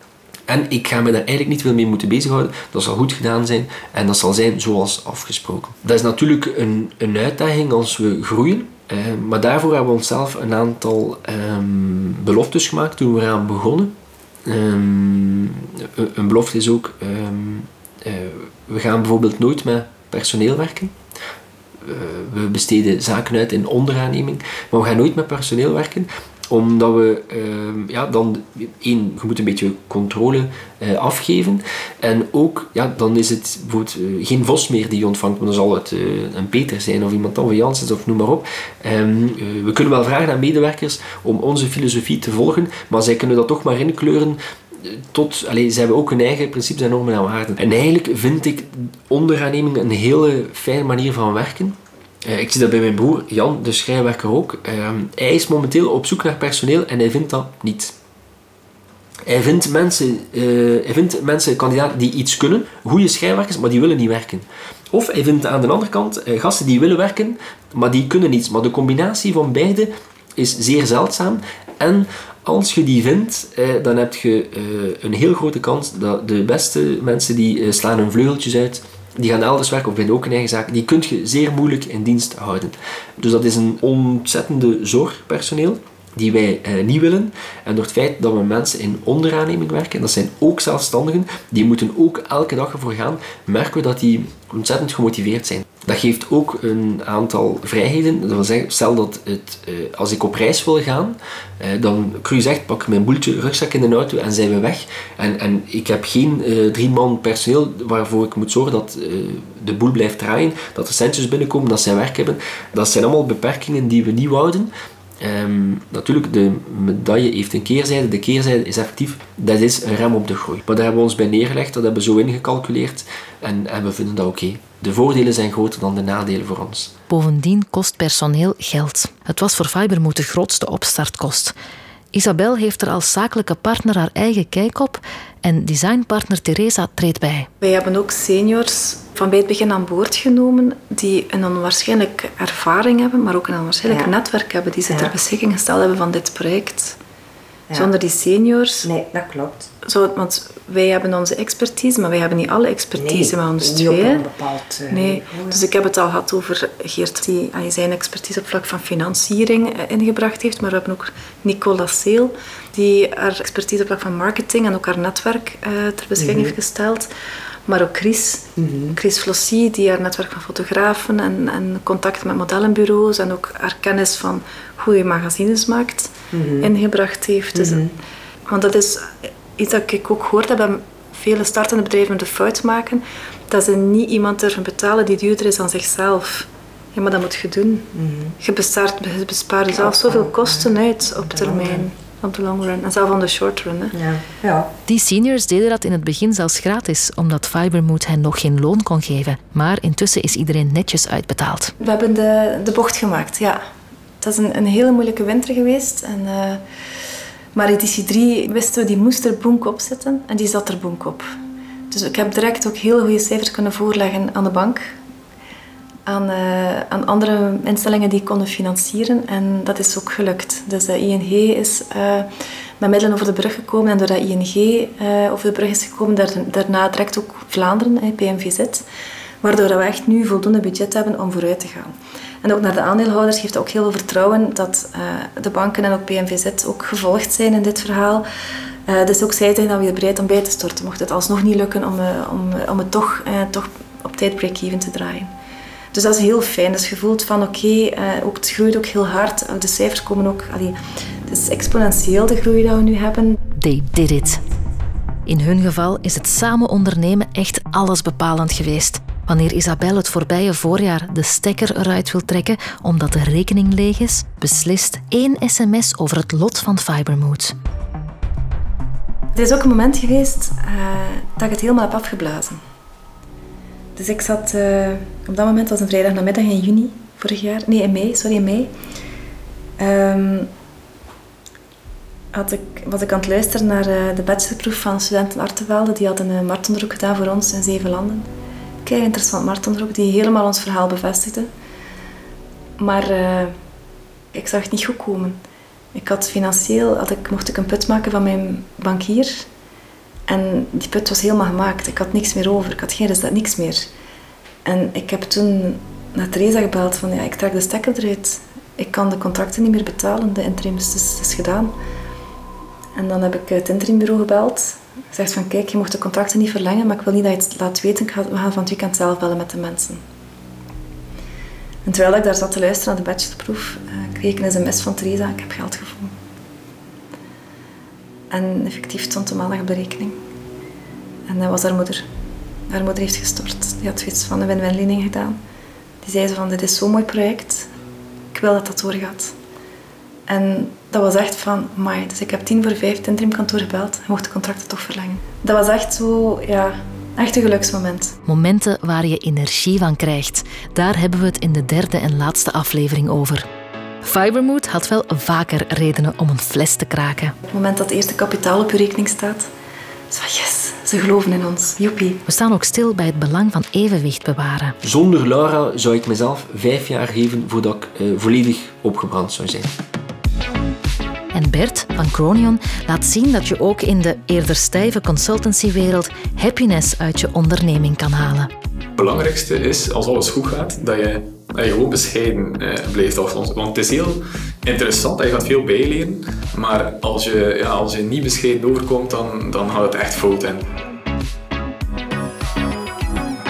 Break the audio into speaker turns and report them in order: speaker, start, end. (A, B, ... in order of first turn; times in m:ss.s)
0:00.5-0:13.9 A
0:14.5-0:20.9 A
0:21.8-0:57.9 A
0:59.3-2:06.9 A
2:07.1-2:11.6 B
2:12.1-2:17.5 B
2:17.6-2:27.0 C
2:27.7-2:28.9 C
2:28.8-2:29.7 D
2:29.8-2:34.3 C
2:33.0-2:35.6 D
2:34.9-2:47.1 C
2:46.2-2:46.5 D
2:47.7-2:57.9 C
2:48.6-2:49.0 D
2:56.3-2:56.7 D
2:57.6-2:57.9 D
2:58.5-3:07.9 C
3:08.0-3:08.4 D
3:08.4-3:14.0 C
3:09.8-3:11.9 D
3:13.9-3:14.7 D
3:14.9-3:21.7 B
3:21.8-3:23.6 C
3:24.2-3:26.6 C
3:27.5-3:31.3 C
3:31.9-3:34.9 C
3:36.1-3:48.8 C
3:49.4-3:58.2 C
3:58.9-4:05.3 C
4:05.9-4:13.4 C
4:13.6-4:14.4 B
4:15.3-4:27.6 B
4:29.4-4:32.6 C
4:34.0-4:38.7 C
4:39.8-4:40.5 C
4:42.3-4:48.3 C
4:48.8-4:51.5 C
4:52.8-4:53.5 C
4:54.3-4:55.4 C
4:55.9-4:59.5 C
5:00.3-5:03.9 C
5:04.6-5:11.7 C
5:13.0-5:20.0 C
5:21.8-5:26.1 C
5:28.3-5:30.2 C
5:31.3-5:32.0 C
5:32.7-5:35.4 C
5:36.0-5:37.7 C
5:38.3-5:39.3 C
5:40.3-5:48.2 C
5:48.3-5:53.5 B
5:54.0-5:57.4 B
5:57.5-5:59.5 C
6:00.1-6:02.2 C
6:02.3-6:04.8 B
6:04.8-6:09.7 A
6:11.3-6:18.5 B
6:19.0-6:30.7 E